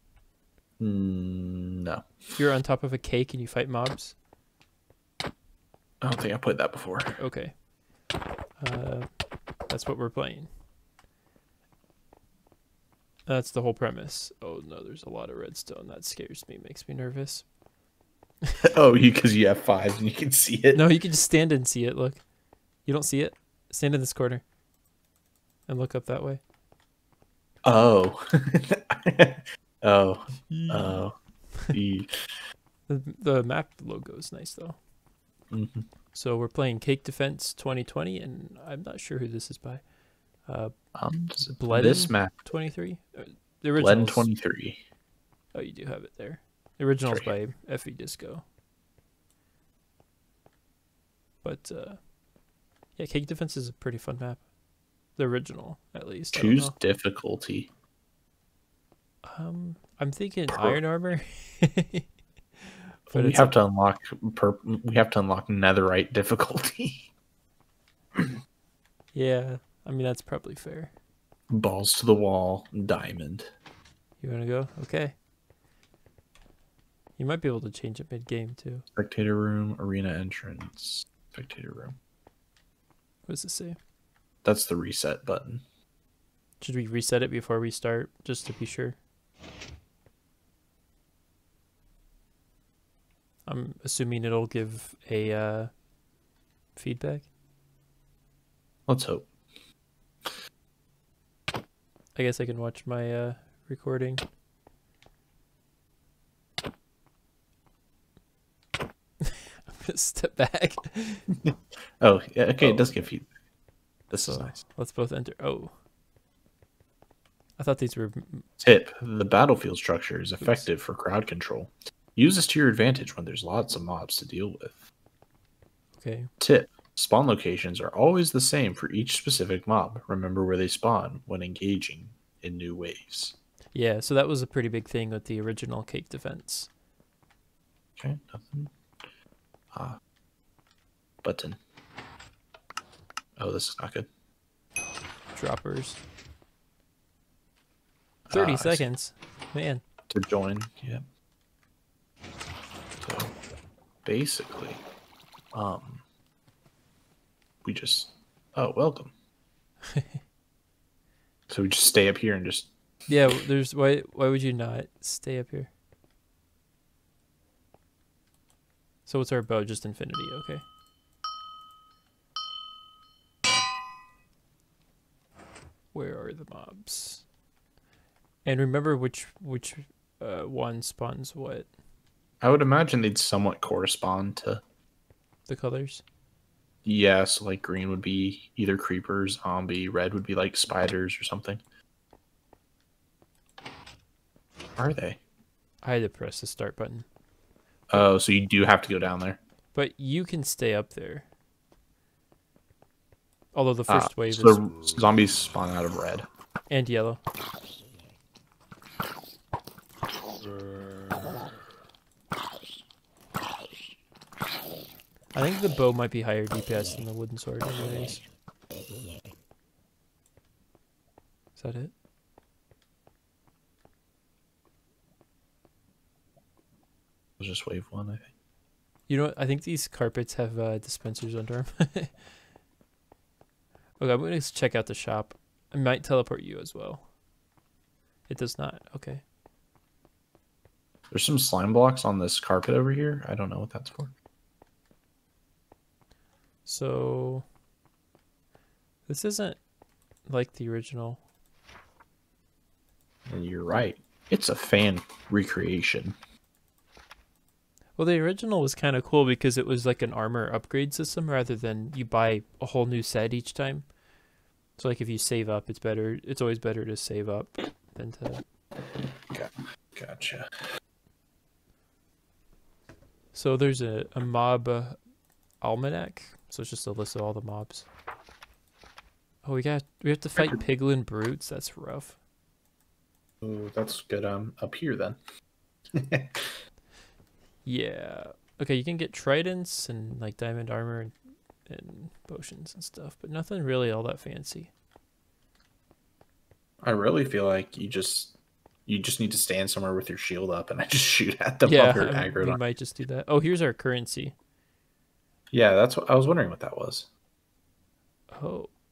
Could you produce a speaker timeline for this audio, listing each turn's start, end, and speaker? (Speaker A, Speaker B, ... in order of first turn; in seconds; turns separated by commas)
Speaker A: 0.8-2.1, Speaker B: 2.4-4.2, Speaker A: 6.0-7.2, Speaker B: 7.2-7.6, Speaker B: 8.6-10.5, Speaker B: 13.3-17.5, Speaker A: 18.6-20.8, Speaker B: 20.7-22.2, Speaker B: 22.9-24.4, Speaker B: 25.7-26.4, Speaker A: 27.6-31.1, Speaker B: 30.5-31.1, Speaker A: 31.6-32.1, Speaker B: 32.9-34.8, Speaker A: 35.5-35.9, Speaker B: 36.1-39.9, Speaker B: 40.4-40.7, Speaker A: 41.0-42.5, Speaker B: 41.5-44.3, Speaker A: 43.8-44.8, Speaker B: 45.5-48.4, Speaker A: 47.1-47.4, Speaker B: 51.4-52.1, Speaker B: 53.0-54.5, Speaker B: 55.2-56.8, Speaker A: 56.3-57.7, Speaker B: 59.2-63.6, Speaker A: 60.5-60.8, Speaker A: 63.1-67.1, Speaker B: 69.1-70.9, Speaker A: 71.5-73.5, Speaker B: 74.2-75.2, Speaker B: 77.2-78.8, Speaker A: 78.9-82.0, Speaker B: 83.3-83.8, Speaker A: 84.4-85.6, Speaker B: 86.6-89.0, Speaker B: 93.5-95.7, Speaker B: 96.8-97.3, Speaker A: 98.9-99.3, Speaker B: 102.2-104.2, Speaker B: 109.2-111.3, Speaker A: 111.4-113.3, Speaker B: 112.6-113.0, Speaker A: 114.1-114.6, Speaker B: 114.2-115.8, Speaker B: 117.6-118.5, Speaker A: 118.6-124.9, Speaker B: 120.4-120.7, Speaker B: 126.0-126.3, Speaker A: 126.4-133.4, Speaker B: 133.7-136.7, Speaker A: 138.0-138.7, Speaker A: 139.7-140.0, Speaker A: 141.2-141.6, Speaker A: 143.4-144.1, Speaker B: 145.3-146.0, Speaker A: 148.3-148.8, Speaker B: 148.3-149.8, Speaker A: 150.1-151.0, Speaker A: 153.0-153.3, Speaker A: 154.1-154.8, Speaker A: 155.5-156.0, Speaker A: 157.6-159.1, Speaker A: 161.5-162.7, Speaker B: 163.1-165.7, Speaker B: 169.1-170.7, Speaker B: 175.9-177.2, Speaker B: 178.4-181.7, Speaker A: 182.4-184.6, Speaker B: 185.5-186.0, Speaker A: 186.8-191.6, Speaker A: 194.8-195.2, Speaker B: 195.8-197.1, Speaker A: 197.9-199.4, Speaker B: 199.7-201.3, Speaker B: 203.5-204.6, Speaker A: 203.9-206.3, Speaker B: 206.7-207.2, Speaker B: 215.3-218.2, Speaker B: 221.6-221.9, Speaker A: 227.4-228.3, Speaker B: 229.1-232.2, Speaker B: 234.0-237.1, Speaker B: 238.3-239.2, Speaker A: 241.1-244.1, Speaker B: 246.7-247.4, Speaker B: 249.1-249.6, Speaker B: 250.3-251.2, Speaker A: 253.3-256.2, Speaker B: 258.0-263.9, Speaker B: 264.8-268.4, Speaker A: 268.9-270.6, Speaker B: 273.3-275.0, Speaker B: 275.6-277.9, Speaker B: 279.4-282.2, Speaker A: 280.4-280.6, Speaker A: 283.4-285.2, Speaker A: 285.9-286.6, Speaker B: 287.6-294.7, Speaker A: 296.8-298.4, Speaker A: 298.9-302.6, Speaker B: 301.6-304.3, Speaker A: 305.5-307.1, Speaker B: 308.3-308.7